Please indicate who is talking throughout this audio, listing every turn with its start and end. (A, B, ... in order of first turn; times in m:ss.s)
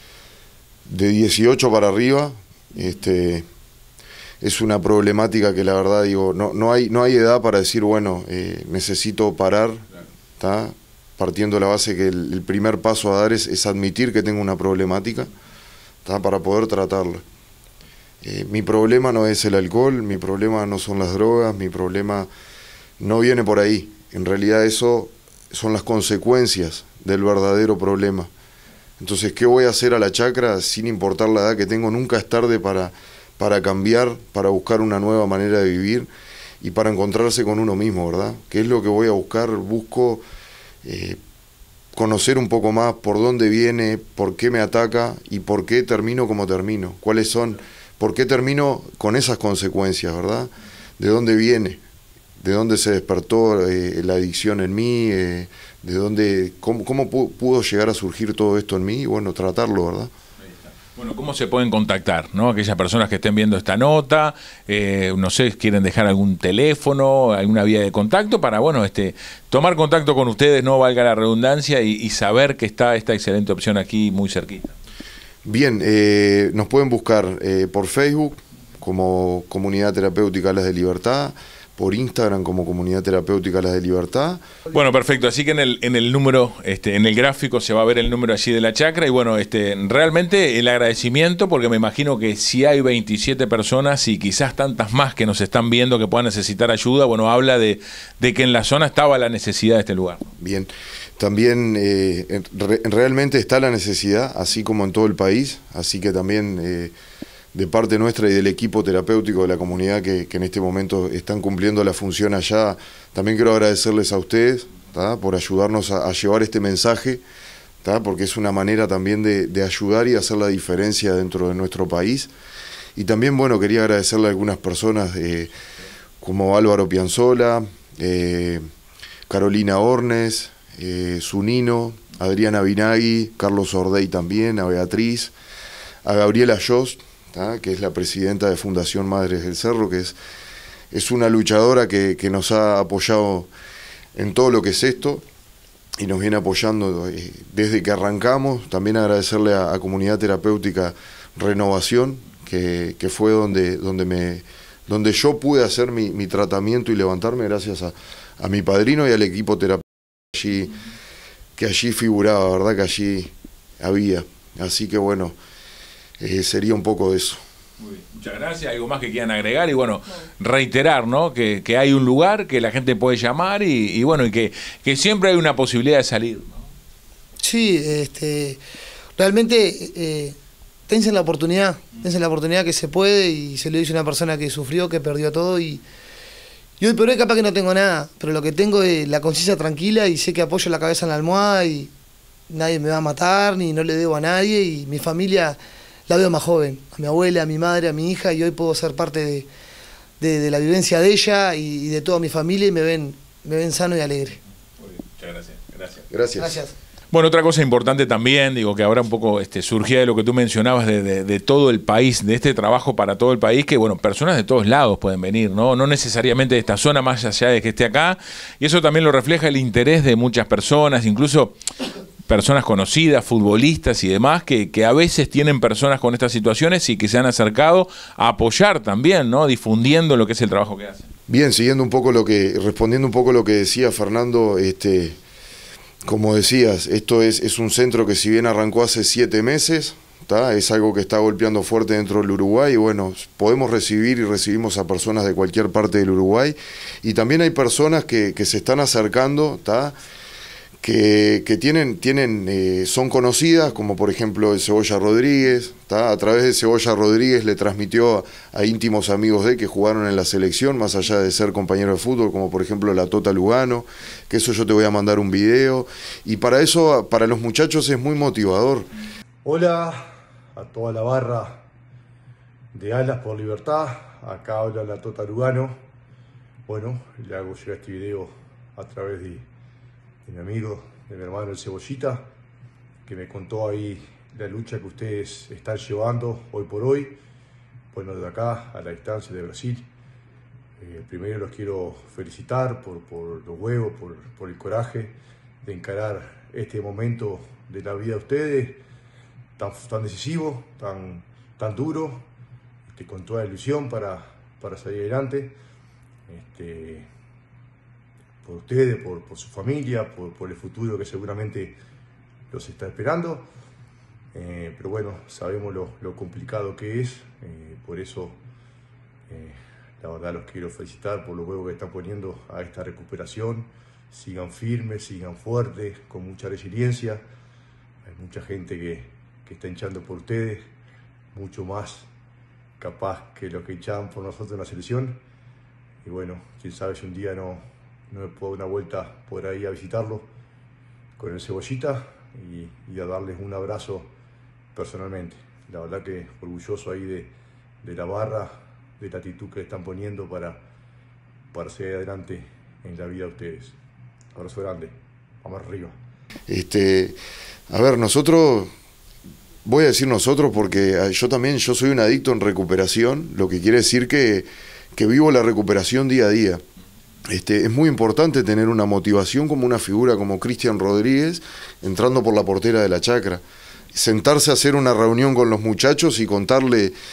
0:00.9-0:03.5 A
0:04.4-0:09.8 A
0:10.4-0:15.3 A
0:16.0-0:17.2 A
0:18.2-0:22.3 A
0:23.0-0:28.3 A
0:29.0-0:36.1 A
0:36.6-0:40.2 A
0:40.8-0:41.2 A
0:42.0-0:51.8 A
0:52.4-1:00.1 A
1:00.4-1:14.7 B
1:15.4-1:24.4 A
1:24.7-1:40.3 B
1:40.4-1:46.9 A
1:47.5-1:57.2 A
1:57.8-2:02.3 A
2:03.0-2:05.5 A
2:06.2-2:08.6 A
2:09.3-2:15.3 A
2:16.0-2:20.2 A
2:20.9-2:23.5 A
2:24.2-2:25.2 A
2:26.0-2:40.7 A
2:41.6-2:45.4 A
2:46.2-2:47.4 A
2:47.8-2:56.6 B
2:57.4-2:58.6 C
2:59.2-3:00.4 C
3:00.9-3:05.8 C
3:06.8-3:11.9 C
3:12.5-3:19.5 C
3:20.2-3:24.4 C
3:24.8-3:26.1 B
3:26.1-3:26.5 A
3:26.4-3:26.8 C
3:27.1-3:41.5 B
3:42.3-3:51.1 B
3:51.3-3:55.2 A
3:56.0-4:10.0 A
4:10.8-4:28.9 A
4:29.4-4:31.6 D
4:32.7-4:35.8 D
4:36.7-4:39.5 D
4:40.2-4:42.2 D
4:43.1-4:47.2 D
4:47.9-4:49.8 D
4:50.8-4:58.8 D
4:59.6-5:02.3 D
5:02.9-5:05.6 D
5:06.3-5:07.1 D
5:08.4-5:11.8 D
5:12.5-5:13.5 D
5:14.3-5:18.4 D
5:19.3-5:27.2 D
5:28.0-5:30.7 D
5:31.3-5:32.1 D
5:32.8-5:35.2 D
5:36.0-5:40.3 D
5:41.2-5:44.1 D
5:44.8-5:50.6 D
5:51.5-5:53.8 D
5:54.4-5:55.9 D
5:56.5-5:57.2 A
5:57.7-5:58.7 A
5:59.6-6:06.6 A
6:07.3-6:17.0 A